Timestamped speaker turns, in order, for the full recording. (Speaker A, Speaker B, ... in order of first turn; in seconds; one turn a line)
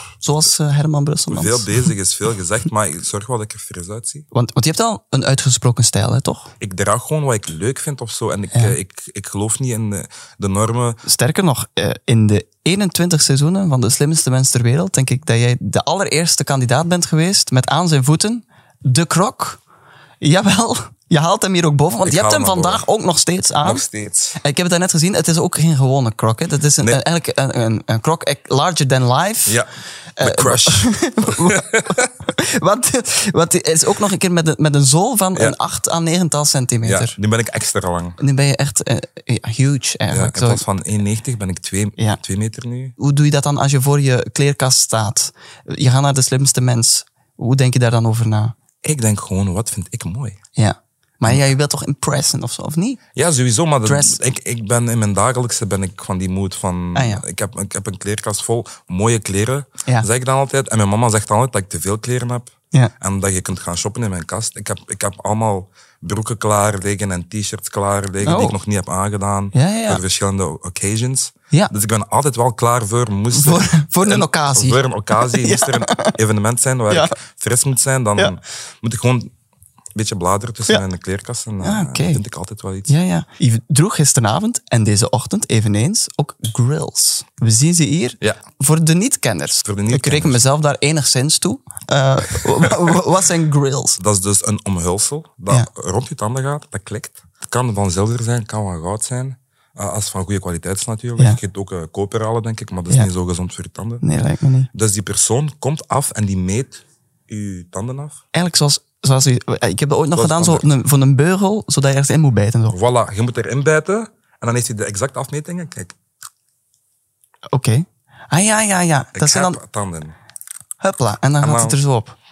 Speaker A: 0.2-1.8
Speaker B: 1.3-4.3
Speaker A: 4.3-6.5
Speaker B: 6.6-11.0
Speaker A: 11.1-19.6
Speaker A: 20.2-23.9
Speaker B: 22.0-22.9
Speaker B: 23.6-24.4
Speaker A: 24.4-29.6
Speaker A: 30.2-37.2
Speaker B: 30.2-32.1
Speaker B: 36.8-38.2
Speaker A: 38.2-40.7
Speaker B: 40.1-43.0
Speaker A: 43.0-48.5
Speaker B: 48.8-50.4
Speaker A: 50.5-53.0
Speaker B: 53.2-79.3
Speaker A: 53.8-54.2
Speaker A: 56.9-57.2
Speaker A: 68.2-68.6
Speaker A: 69.5-70.0
Speaker A: 73.3-76.2
Speaker A: 76.9-77.2
Speaker B: 80.0-83.0
Speaker A: 81.6-82.2
Speaker A: 82.9-94.0
Speaker B: 89.6-90.4
Speaker B: 94.0-104.0
Speaker A: 104.0-104.7
Speaker B: 104.7-108.2
Speaker A: 108.3-112.8
Speaker B: 110.1-110.7
Speaker B: 112.7-115.9
Speaker A: 117.5-119.6
Speaker B: 119.2-120.2
Speaker A: 120.8-122.2
Speaker B: 121.4-121.8